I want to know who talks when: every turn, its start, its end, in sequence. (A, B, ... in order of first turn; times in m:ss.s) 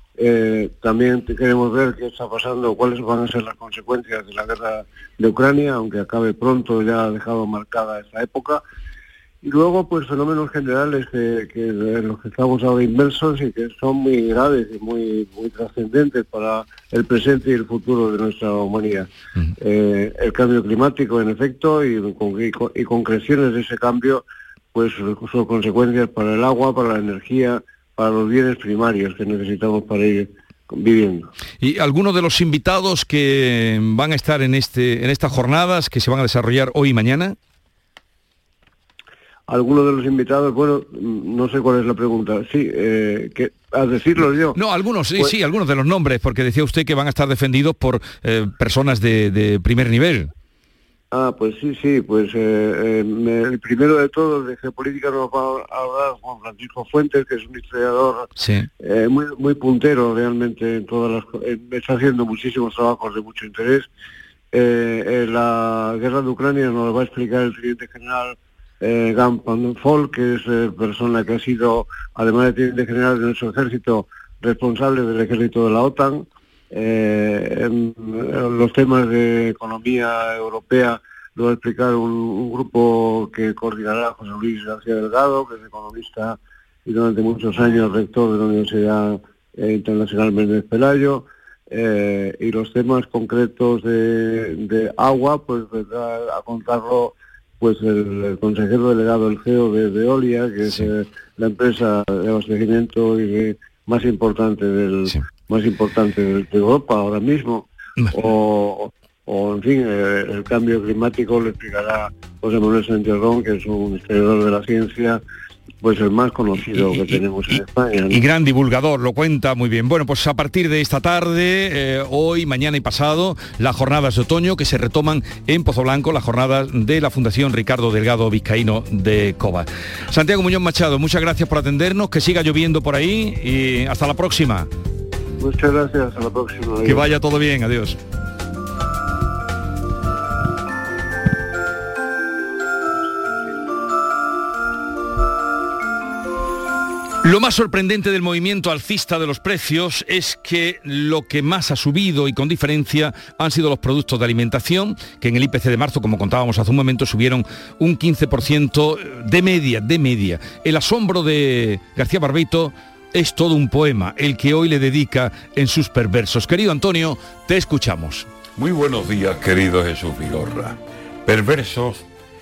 0:00.2-0:08.6 A
0:09.4-0:19.1 A
0:19.6-0:31.3 A
0:31.6-0:37.4 B
0:39.5-0:44.6 A
0:44.5-0:50.3 B
0:51.1-0:58.3 A
0:58.4-0:58.7 B
0:58.8-1:03.9 A
1:04.5-1:55.2 A
1:55.8-1:58.2 A
1:56.8-1:57.2 B
1:58.1-2:14.7 B
2:15.4-2:17.1 A
2:16.8-2:18.0 B
2:27.2-2:48.3 B
2:48.5-2:52.0 C